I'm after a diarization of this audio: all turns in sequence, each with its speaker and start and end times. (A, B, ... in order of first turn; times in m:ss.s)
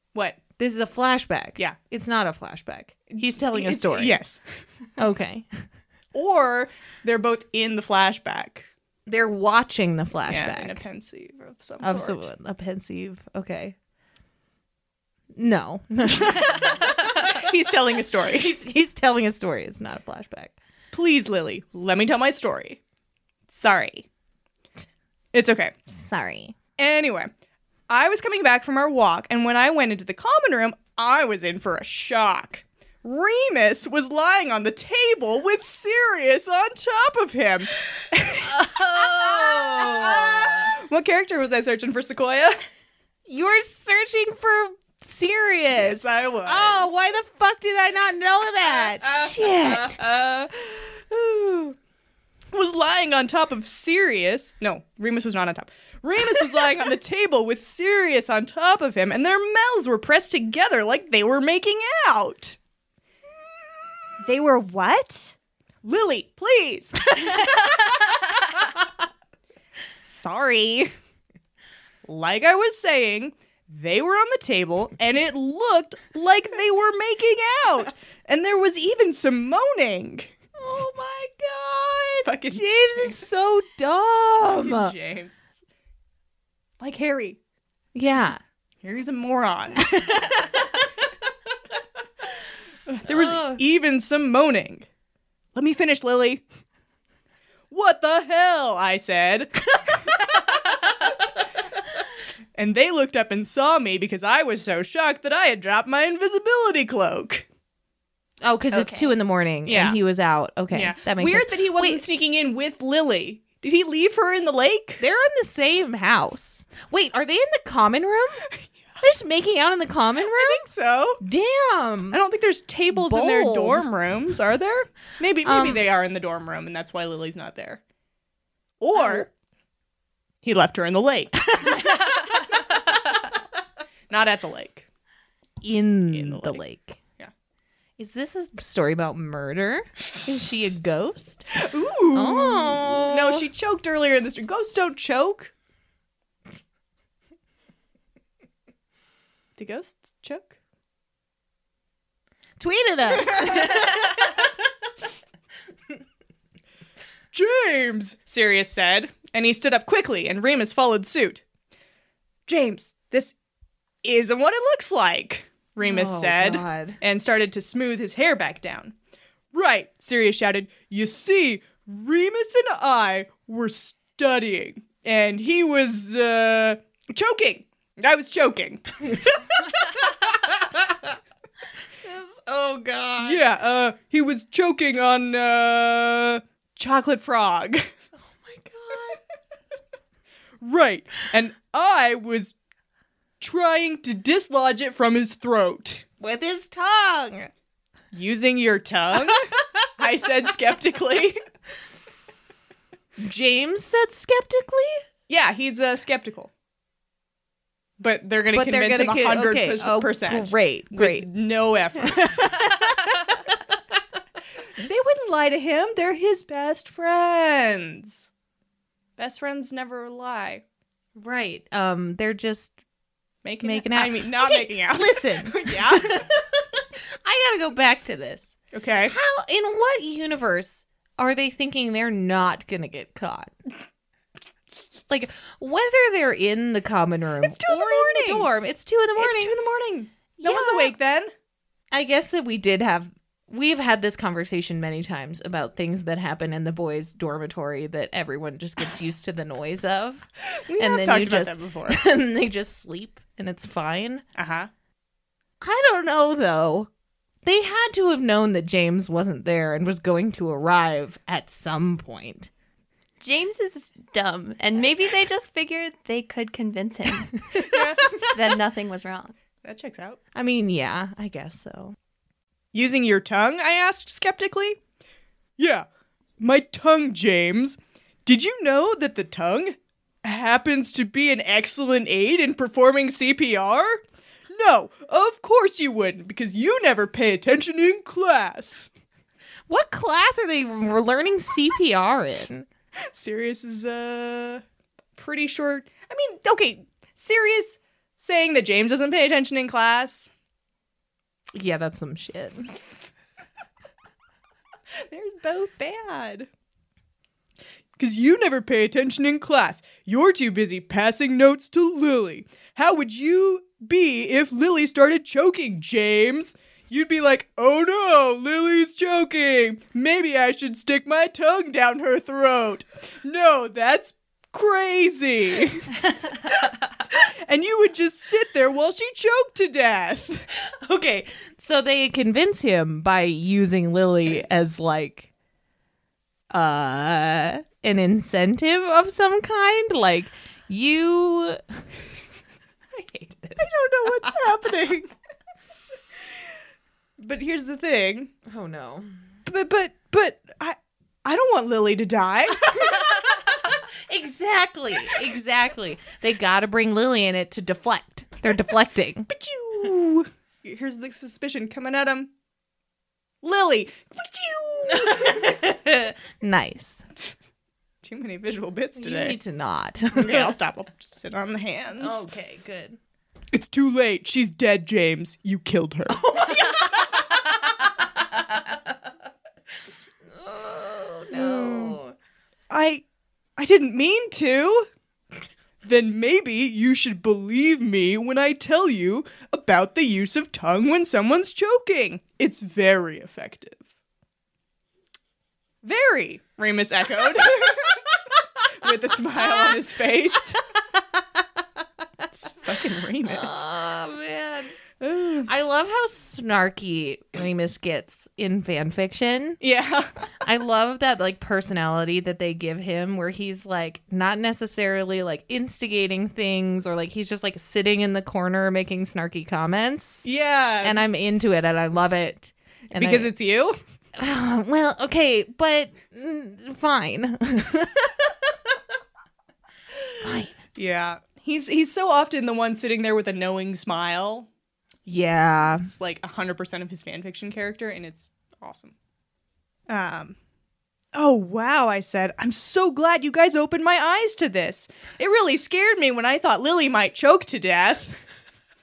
0:00.1-0:00.4 A
0:00.6-0:04.2 B
0:03.1-0:04.4 A
0:05.0-0:05.6 B
0:06.1-0:08.7 A
0:09.0-0:10.8 B
0:10.3-0:12.2 A
0:11.8-0:13.8 B
0:15.3-0:17.5 B
0:16.2-0:18.6 A
0:18.3-0:20.5 B
0:20.9-0:22.8 A
0:23.5-0:24.0 A
0:25.3-0:25.7 A
0:25.9-0:26.6 B
0:26.8-0:27.3 A
0:27.9-0:42.6 A
0:38.4-0:40.7 B
0:43.2-0:50.0 B
0:45.7-0:46.9 A
0:48.6-0:51.8 A
0:52.5-1:02.6 A
0:56.3-0:56.7 B
1:04.2-1:08.7 A
1:10.1-1:10.9 A
1:12.0-1:20.3 A
1:20.6-1:24.9 B
1:22.2-1:23.2 A
1:24.5-1:25.4 A
1:26.8-1:27.4 A
1:27.9-1:28.4 B
1:28.8-1:30.3 A
1:29.8-1:30.9 B
1:32.8-1:34.8 A
1:33.0-1:33.6 B
1:35.5-1:36.4 A
1:37.7-1:40.2 A
1:42.6-1:47.5 A
1:48.4-1:52.0 B
1:48.7-1:49.2 C
1:49.6-1:50.0 A
1:50.7-1:55.0 A
1:55.0-1:58.4 B
1:59.0-2:00.6 B
2:00.3-2:01.2 A
2:01.2-2:02.2 B
2:02.1-2:07.8 A
2:02.9-2:03.9 B
2:05.4-2:05.8 B
2:08.8-2:09.3 A
2:08.9-2:09.3 B
2:10.4-2:11.8 A
2:11.5-2:12.3 B
2:14.1-2:14.8 A
2:15.6-2:17.0 B
2:16.1-2:16.6 A
2:18.0-2:21.5 B
2:21.5-2:25.5 A
2:22.1-2:23.5 B
2:29.6-2:30.5 A
2:32.6-2:34.4 B
2:37.3-2:41.4 A
2:42.5-2:43.3 A
2:44.0-2:48.9 A
2:45.8-2:47.0 B
2:49.5-2:59.9 A
2:59.3-3:01.1 B
3:02.0-3:03.4 B
3:03.2-3:07.9 A
3:08.3-3:09.2 B
3:10.6-3:12.5 A
3:13.4-3:16.0 A
3:16.2-3:17.5 B
3:18.1-3:21.4 A
3:23.2-3:25.0 B
3:25.3-3:26.5 A
3:28.0-3:32.8 A
3:28.5-3:31.3 B
3:32.0-3:33.4 B
3:34.8-3:38.3 A
3:39.2-3:40.6 A
3:41.2-3:42.7 B
3:43.4-3:46.3 A
3:43.6-3:48.5 B
3:48.7-3:49.2 A
3:49.1-3:53.5 B
3:55.1-3:59.5 B
3:57.4-3:58.5 A
3:59.2-4:01.3 A
4:00.4-4:00.9 B
4:01.9-4:10.3 B
4:10.5-4:12.0 A
4:10.8-4:14.2 B
4:14.4-4:14.7 A
4:15.6-4:16.9 B
4:17.4-4:22.5 B
4:23.2-4:27.4 C
4:27.5-4:28.3 A
4:28.1-4:29.3 C
4:29.6-4:30.2 A
4:30.3-4:32.0 B
4:32.7-4:34.8 A
4:35.6-4:35.9 A
4:36.4-4:48.9 A
4:49.7-4:52.7 B
4:53.1-4:54.6 A
4:55.2-5:00.3 A
5:01.5-5:02.8 B
5:05.1-5:06.5 A
5:08.0-5:26.0 A
5:27.1-5:30.4 A
5:30.6-5:35.3 B
5:36.5-5:41.8 B
5:42.9-5:44.6 B
5:43.6-5:45.1 A
5:47.2-5:48.3 A
5:48.5-5:49.2 B
5:49.4-5:53.1 A
5:52.7-5:59.3 B
5:59.3-6:02.3 A
6:03.4-6:05.6 A
6:04.9-6:07.1 B
6:08.0-6:09.4 A
6:09.0-6:10.5 B
6:10.1-6:12.2 A
6:12.0-6:13.0 B
6:13.5-6:16.3 A
6:16.1-6:19.0 B
6:20.2-6:22.1 B
6:21.3-6:22.0 A
6:22.7-6:23.0 A
6:23.6-6:24.9 A
6:25.8-6:33.9 A
6:35.8-6:38.1 A
6:38.7-6:40.6 A
6:39.4-6:39.8 B
6:42.3-6:43.6 A
6:43.2-6:44.8 B
6:45.0-6:45.5 A
6:45.5-6:49.6 B
6:49.6-6:50.2 A
6:50.4-7:00.2 B
7:00.2-7:01.0 A
7:00.8-7:03.3 B
7:02.9-7:03.8 A
7:04.2-7:08.7 B
7:10.2-7:10.6 B
7:10.8-7:14.5 A
7:15.0-7:15.9 B
7:15.8-7:18.9 A
7:19.9-7:20.4 A
7:21.1-7:28.2 A